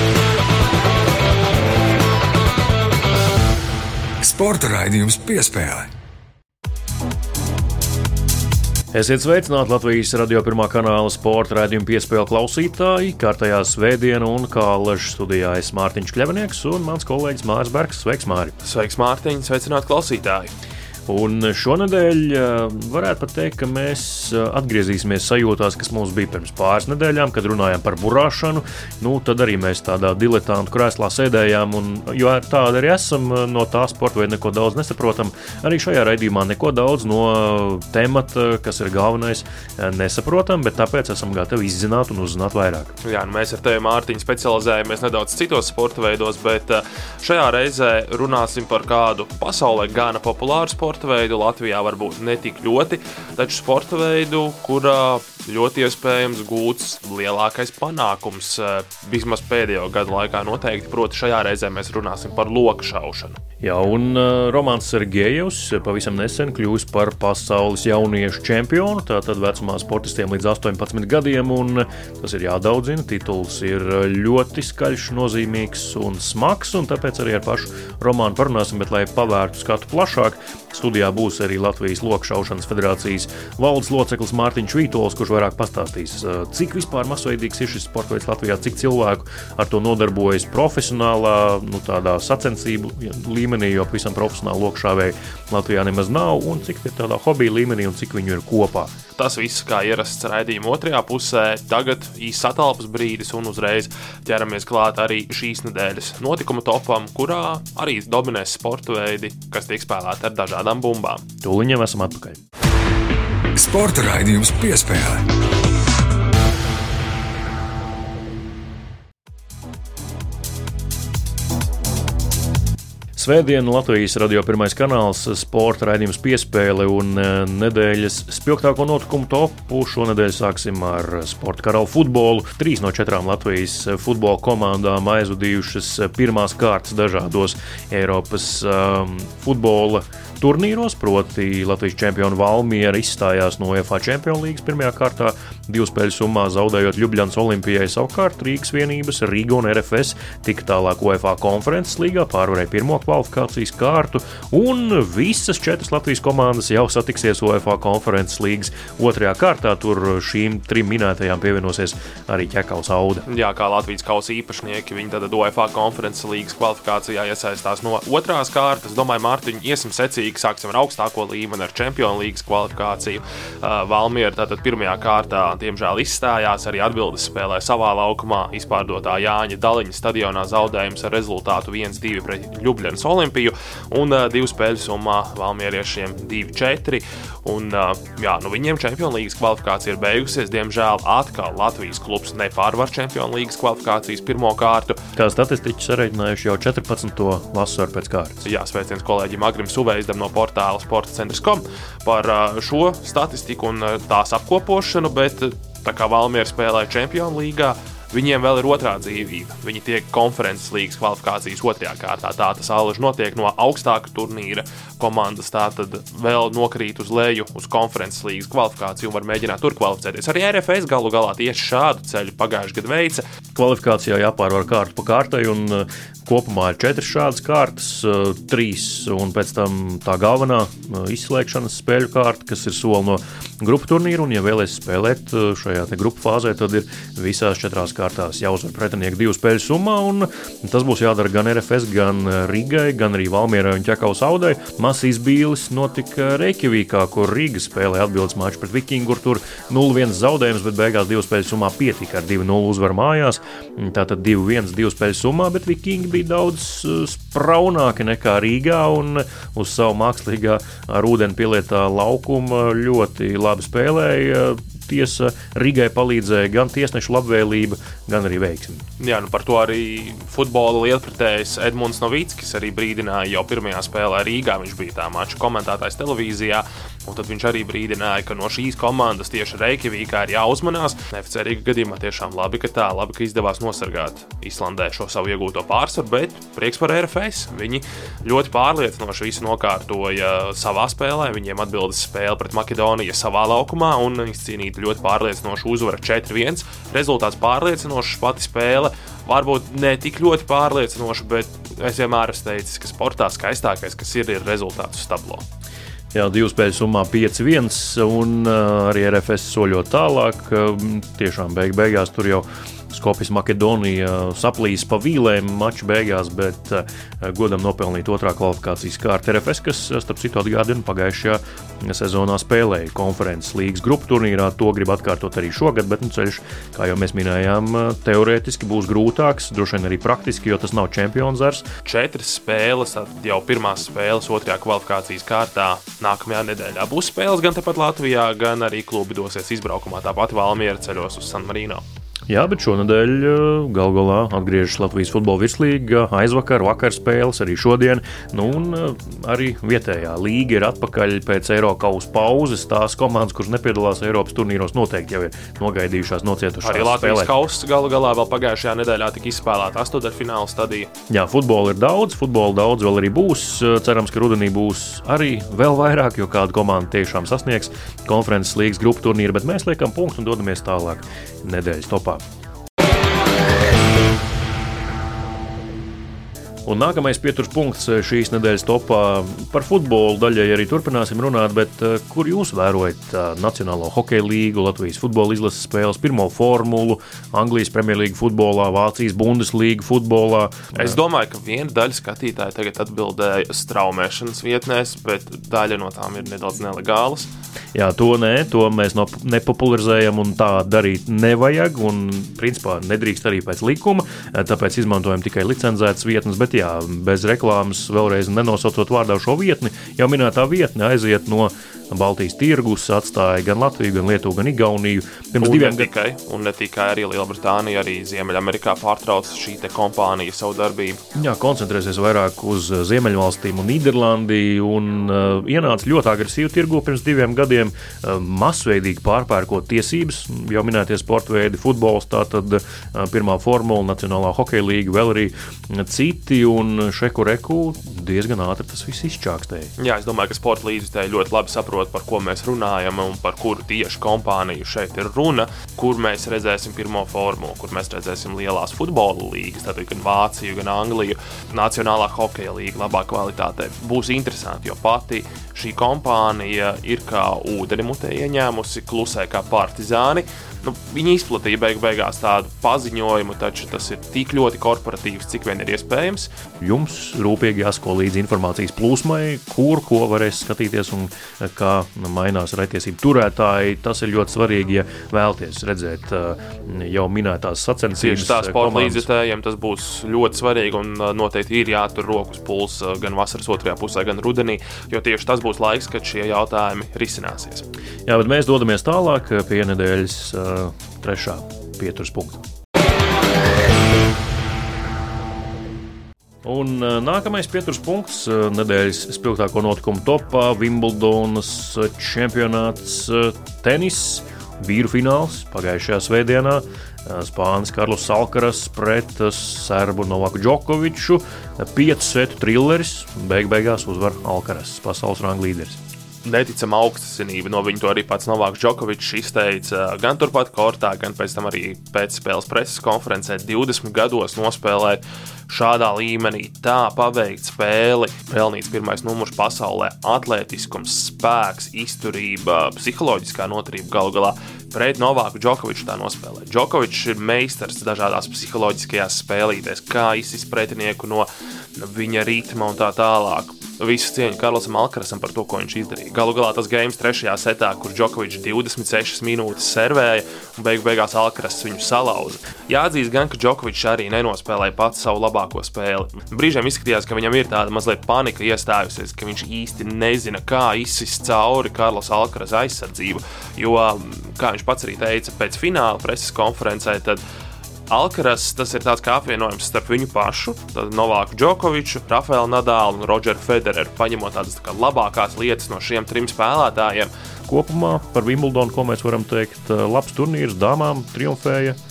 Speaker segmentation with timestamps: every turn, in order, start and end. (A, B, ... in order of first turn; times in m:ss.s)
0:04.2-0:05.9 A
0:08.9-0:18.6 B
0:18.6-0:20.5 C
0:21.1-0:42.9 B
0:43.0-1:03.4 C
1:03.6-1:38.9 B
1:39.2-1:51.2 C
1:51.4-1:52.4 B
1:53.6-1:55.3 A
2:03.2-2:43.2 B
2:43.3-3:15.0 C
3:15.2-3:18.4 B
3:18.4-3:43.2 C
3:43.6-4:28.8 B
4:29.0-5:05.4 C
5:06.1-5:31.7 B
5:31.8-5:41.8 C
5:42.3-5:57.3 B
5:56.6-6:00.9 C
6:01.1-6:12.2 B
6:16.7-6:31.0 B
6:30.8-6:37.3 C
6:37.8-6:55.9 B
6:55.4-7:01.0 C
7:01.1-7:19.7 B
7:19.8-7:46.3 C
7:46.6-7:59.1 B
7:58.0-8:07.7 C
8:08.1-8:12.4 B
8:16.4-8:35.8 B
8:36.2-9:27.2 C
9:27.9-9:37.1 C
9:37.5-9:41.8 B